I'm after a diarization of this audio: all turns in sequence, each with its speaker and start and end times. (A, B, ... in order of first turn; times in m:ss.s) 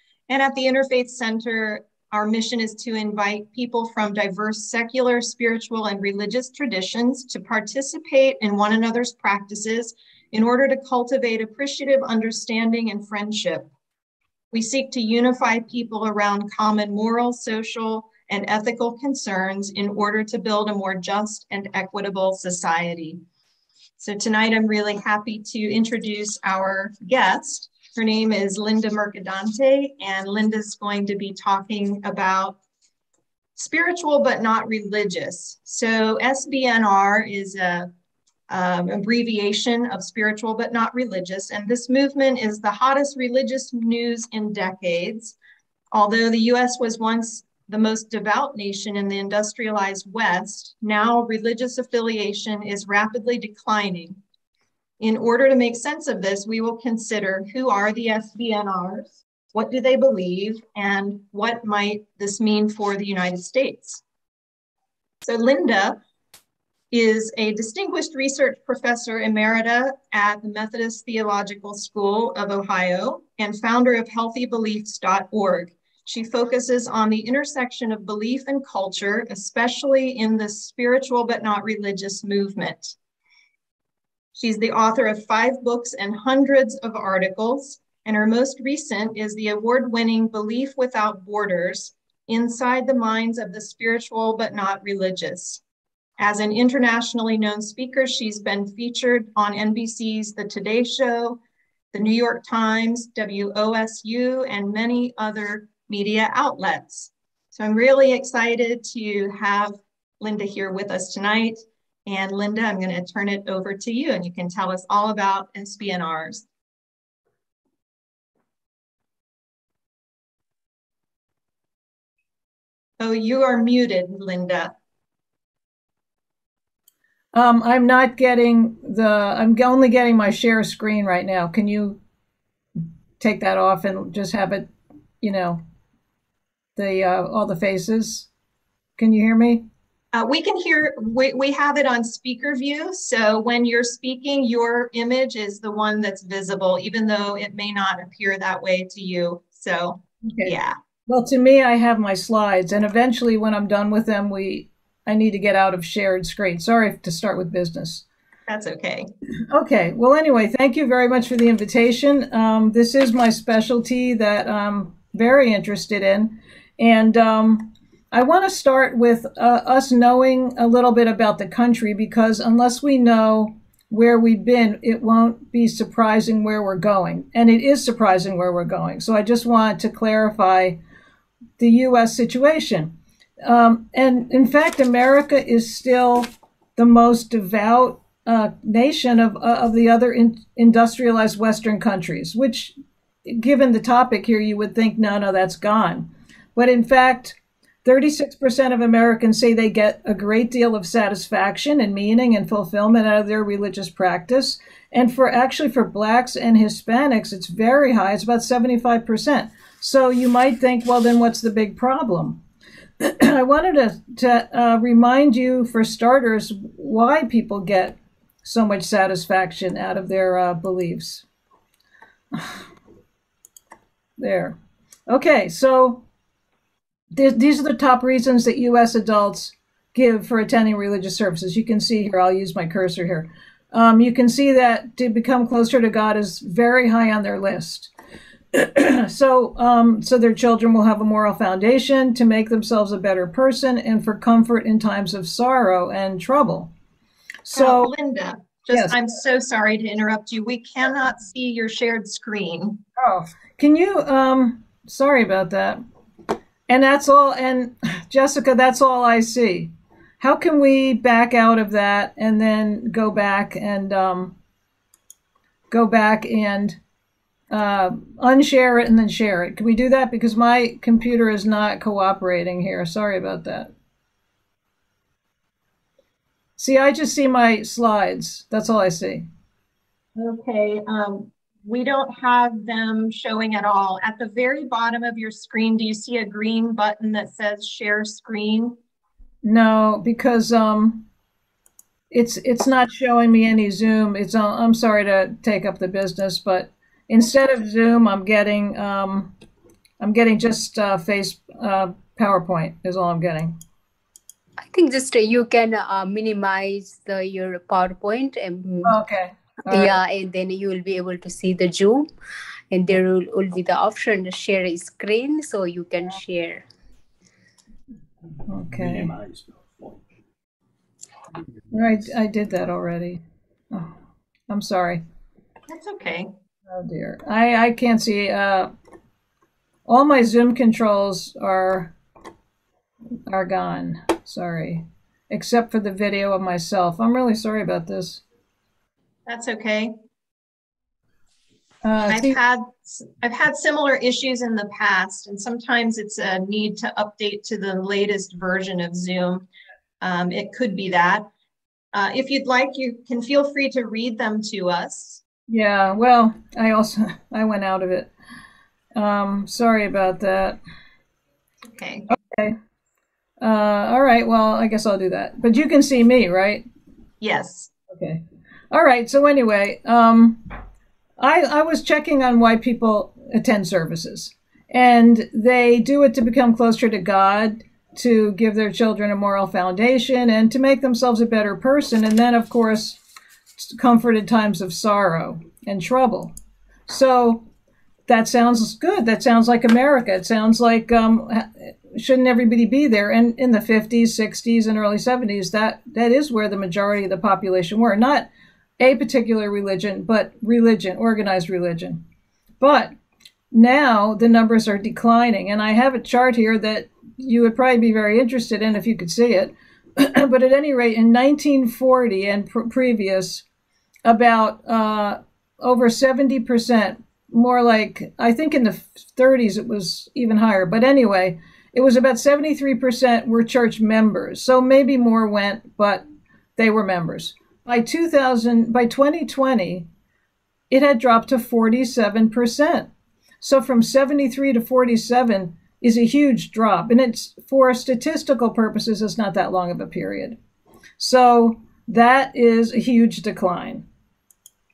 0:00.3-0:13.7 A
0:14.5-0:23.2 A
0:24.0-0:32.6 A
0:33.6-0:37.9 A
0:38.5-0:45.3 A
0:45.9-0:54.2 A
0:55.0-1:04.0 A
1:05.2-1:06.0 A
1:06.9-1:23.0 A
1:24.3-1:35.6 A
1:36.2-1:41.4 A
1:41.9-1:56.4 A
2:03.0-2:04.7 A
2:07.3-2:12.0 B
2:13.2-2:14.7 B
2:15.2-2:15.6 B
2:16.8-2:18.3 B
2:19.0-2:19.6 B
2:20.1-2:30.7 A
2:31.1-2:38.0 B
2:38.5-2:39.1 A
2:39.5-3:00.8 B
3:01.6-3:02.9 B
3:03.4-3:32.4 B
3:33.0-3:41.2 B
3:42.3-3:42.6 B
3:44.2-3:44.6 B
3:45.1-3:46.0 B
3:47.1-3:57.9 B
3:58.5-4:06.7 B
4:07.4-4:07.9 B
4:07.5-4:12.8 A
4:13.0-4:15.8 B
4:16.7-4:24.3 B
4:25.7-4:26.8 B
4:27.5-4:33.7 B
4:36.6-4:39.2 B
4:40.2-4:48.8 A
4:49.4-4:51.0 B
4:52.1-4:59.3 B
5:00.0-5:03.5 B
5:04.6-5:09.0 C
5:08.8-5:10.0 B
5:09.7-5:12.1 C
5:12.7-5:16.6 C
5:18.5-5:19.2 B
5:21.7-5:23.2 B
5:24.5-5:25.0 B
5:25.7-5:26.3 A
5:26.7-5:28.7 B
5:29.9-5:31.9 B
5:33.3-5:38.2 B
5:39.3-5:39.9 A
5:41.8-5:42.4 B
5:42.1-5:49.4 A
5:50.0-5:51.2 A
5:51.9-5:55.2 A
5:55.5-5:58.1 B
5:59.0-6:00.6 B
6:01.7-6:02.1 A
6:02.1-6:02.5 B
6:03.4-6:06.6 B
6:07.2-6:07.7 A
6:07.9-6:10.4 B
6:11.2-6:23.0 B
6:23.6-6:26.3 B
6:26.9-6:27.4 B
6:28.1-6:38.3 B
6:38.8-6:42.0 B
6:42.6-6:42.9 B
6:43.5-6:53.4 B
6:54.0-7:06.0 B
7:06.6-7:09.8 B
7:10.7-7:12.9 B
7:13.4-7:20.4 B
7:21.0-7:23.8 B